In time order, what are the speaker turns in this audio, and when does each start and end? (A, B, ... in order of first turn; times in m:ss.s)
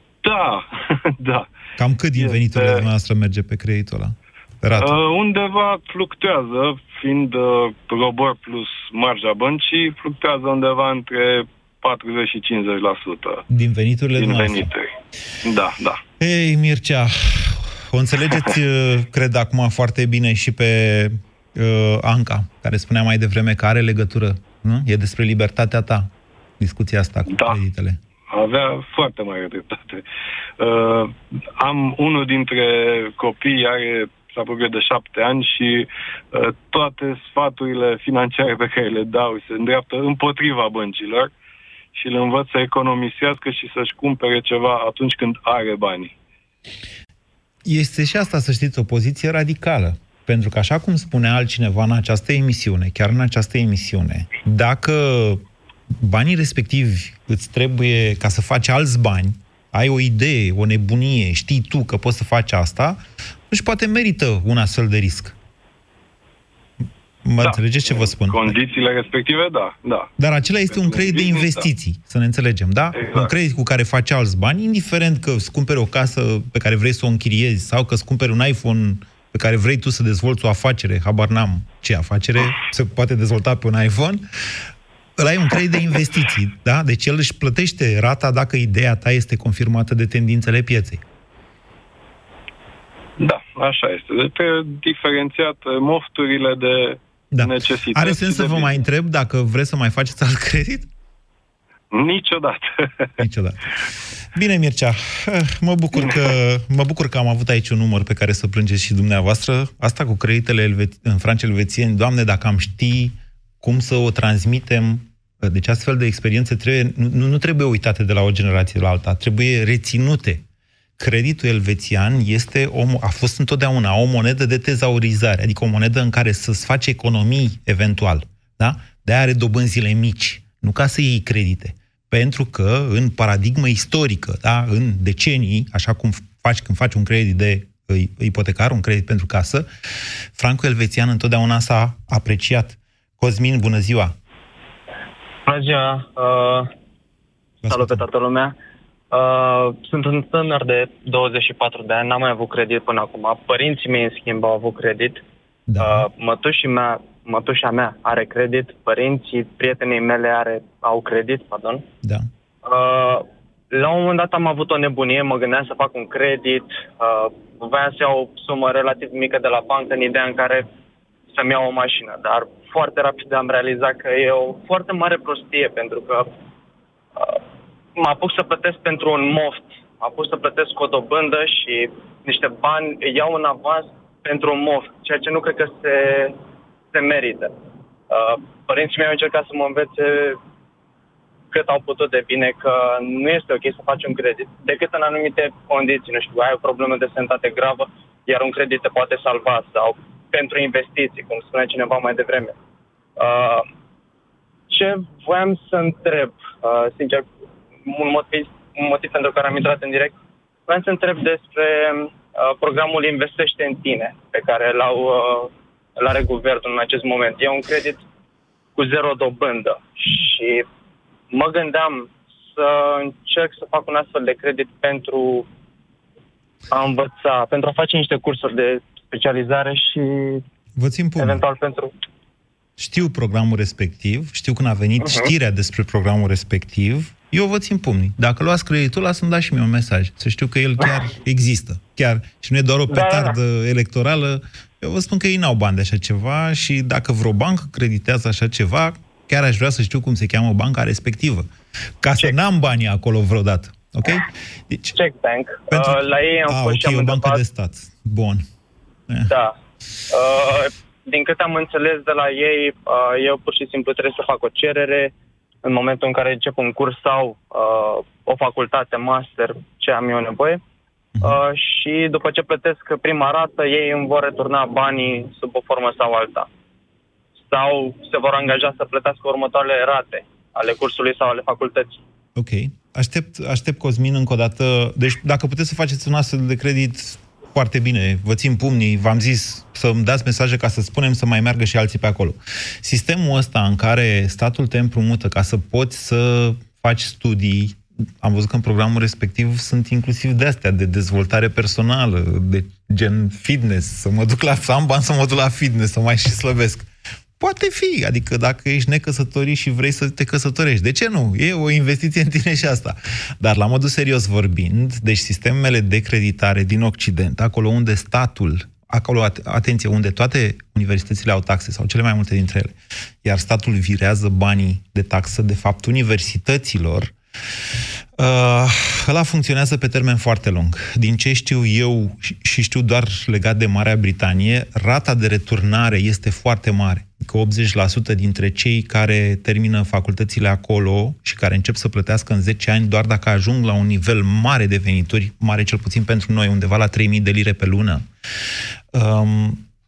0:00.2-0:01.5 A
0:01.8-0:05.0 B
0:02.2-0:02.9 A
0:04.7-0:13.4 A
0:13.5-0:14.7 B
0:14.2-0:14.9 A
0:15.4-0:16.0 A
0:16.2-0:26.1 B
0:26.6-0:28.0 B
0:27.3-0:27.6 A
0:28.3-0:30.0 A
0:30.6-0:41.3 A
0:42.0-0:46.1 A
0:47.6-0:55.4 B
0:55.9-1:05.4 B
1:07.2-1:08.6 B
1:07.4-1:10.1 A
1:10.2-1:24.2 B
1:10.7-1:11.7 A
1:12.9-1:13.3 A
1:25.2-1:31.0 B
1:33.2-1:38.8 A
1:37.3-1:40.9 B
1:41.9-1:43.1 A
1:43.2-1:43.6 B
1:44.3-2:00.4 B
2:01.0-2:19.7 B
2:20.4-2:24.1 B
2:25.5-2:26.7 C
2:27.6-2:28.5 C
2:27.6-2:28.0 B
2:29.1-2:35.2 C
2:35.7-2:36.1 B
2:35.8-2:41.8 C
2:42.0-2:42.3 B
2:42.6-2:50.7 C
2:51.3-2:56.3 C
2:58.0-3:06.4 C
3:06.9-3:07.5 C
3:08.1-3:10.4 C
3:11.5-3:22.5 C
3:23.2-3:23.6 C
3:24.7-3:27.3 C
3:27.8-3:30.2 C
3:30.7-3:38.0 C
3:38.8-3:40.7 C
3:41.3-3:45.5 C
3:46.7-3:50.4 C
3:50.8-3:51.4 B
3:51.2-3:51.9 C
3:52.8-4:11.5 B
3:55.0-3:55.3 C
4:02.9-4:03.4 C
4:12.0-4:14.9 B
4:14.9-4:17.4 C
4:15.7-4:18.4 B
4:19.3-4:19.6 C
4:20.1-4:25.1 C
4:25.6-4:30.6 C
4:31.2-4:36.5 C
4:37.4-4:42.0 C
4:42.4-5:06.9 B
5:07.4-5:27.1 B
5:28.2-5:48.0 B
5:48.9-5:49.6 B